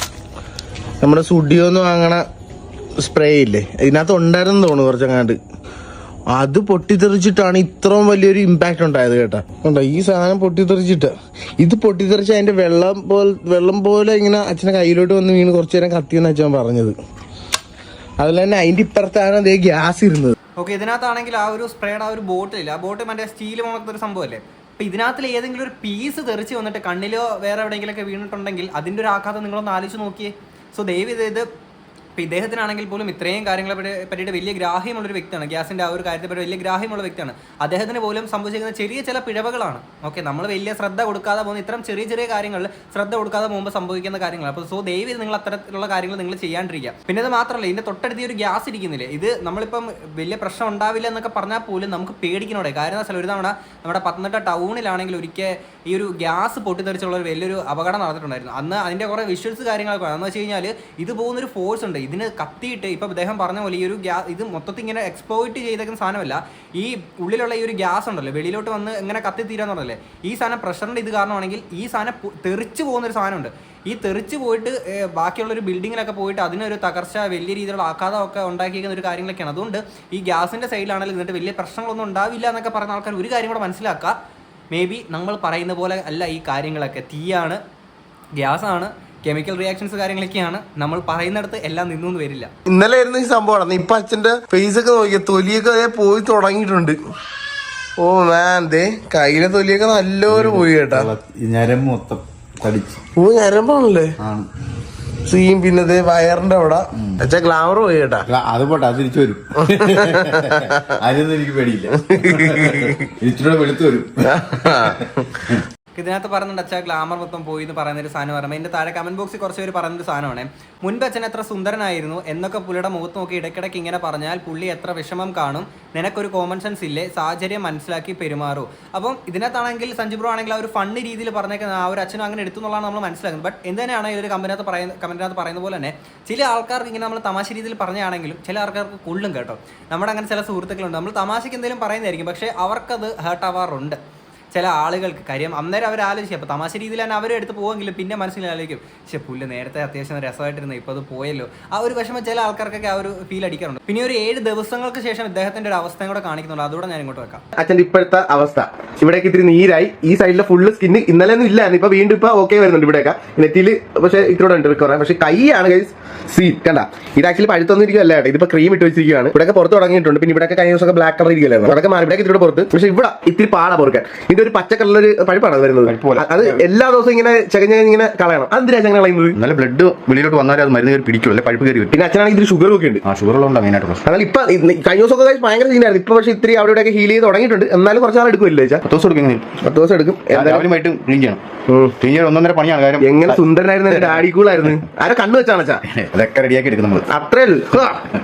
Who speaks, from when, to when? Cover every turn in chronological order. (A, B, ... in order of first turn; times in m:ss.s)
0:01.0-0:02.2 A
0:03.0-0:05.4 A
0:06.3-0:16.9 A
0:18.2-0:20.4 A
0:20.6-0:31.4 B
0:32.2-1:24.1 B
1:24.7-1:27.6 B
1:28.4-1:32.5 B
1:32.6-1:37.0 A
1:38.0-1:41.1 A
1:40.3-1:43.0 C
1:43.2-1:44.2 A
1:44.2-1:44.5 C
1:45.2-1:48.3 A
1:48.3-1:55.6 C
1:52.1-1:52.9 A
1:54.4-1:55.0 A
1:56.0-2:24.0 B
2:24.5-2:37.4 B
2:37.6-2:59.4 A
2:55.8-2:56.6 C
2:59.3-3:02.0 C
3:01.9-3:03.0 A
3:03.0-3:04.0 C
3:04.0-3:08.8 A
3:08.8-3:09.5 C
3:09.6-3:10.7 A
3:10.3-3:11.4 C
3:11.7-3:12.0 A
3:12.0-3:14.8 C
3:13.0-3:15.8 A
3:15.8-3:17.1 C
3:17.1-3:18.0 A